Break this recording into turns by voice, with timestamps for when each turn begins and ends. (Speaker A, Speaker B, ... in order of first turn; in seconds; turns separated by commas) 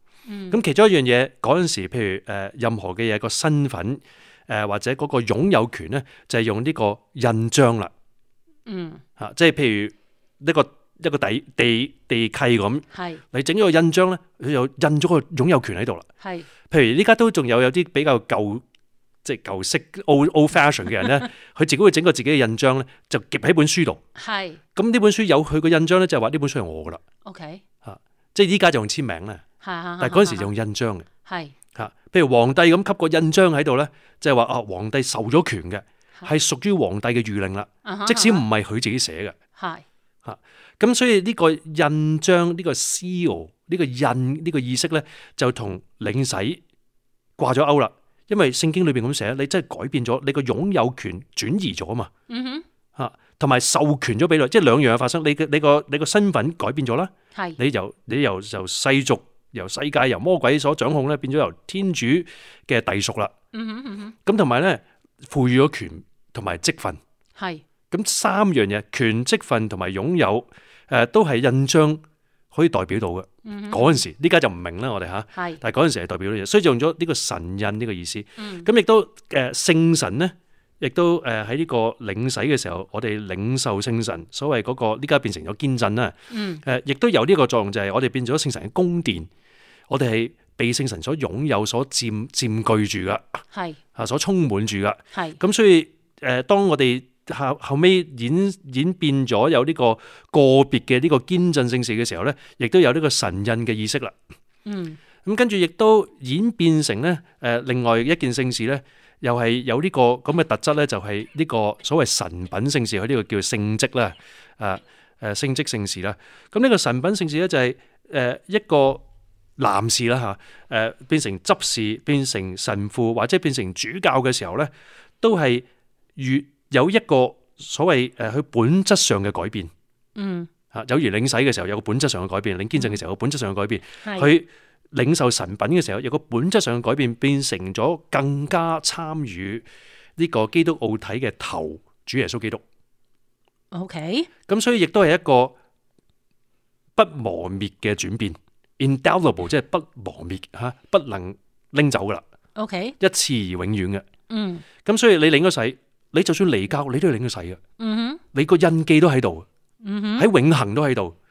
Speaker A: 0.3-0.6, Speaker B: 0.5-7.9, Speaker A: 8.7-9.0, Speaker B: 9.2-16.1, Speaker A: 12.9-13.2, Speaker A: 16.2-16.5, Speaker B: 16.7-18.6, Speaker B: 19.2-24.0, Speaker A: 24.2-24.6, Speaker B: 24.8-27.0, Speaker A: 27.2-27.6, Speaker B: 27.8-29.4, Speaker A: 29.6-30.5, Speaker B: 30.0-31.1, Speaker A: 31.3-31.5, Speaker B: 31.8-39.4, Speaker A: 37.9-38.5, Speaker A: 39.6-39.8, Speaker B: 40.2-46.6, Speaker B: 47.4-52.1, Speaker A: 52.3-52.6, Speaker B: 53.0-63.3, Speaker A: 57.3-57.6, Speaker A: 63.5-64.1, Speaker B: 64.3-67.0, Speaker A: 67.4-67.6, Speaker B: 67.9-72.0, Speaker B: 72.5-89.3, Speaker A: 73.5-74.0, Speaker A: 78.4-78.7, Speaker A: 86.3-86.6, Speaker B: 89.9-93.4, Speaker A: 93.5-93.8, Speaker B: 94.0-104.1, Speaker A: 95.1-95.4, Speaker A: 104.7-105.0, Speaker B: 105.2-119.0, Speaker B: 119.6-124.7, Speaker B: 125.2-125.7, Speaker B: 126.2-129.7, Speaker A: 130.2-130.5, Speaker B: 130.7-139.7, Speaker A: 134.0-134.3, Speaker B: 140.2-142.6, Speaker A: 143.7-144.3, Speaker B: 144.5-145.6, Speaker B: 147.0-152.2, Speaker A: 152.6-153.0, Speaker B: 153.0-154.1, Speaker A: 154.3-154.6, Speaker B: 154.8-157.6, Speaker A: 157.8-158.2, Speaker B: 158.3-159.5, Speaker A: 159.8-160.3, Speaker B: 160.2-161.2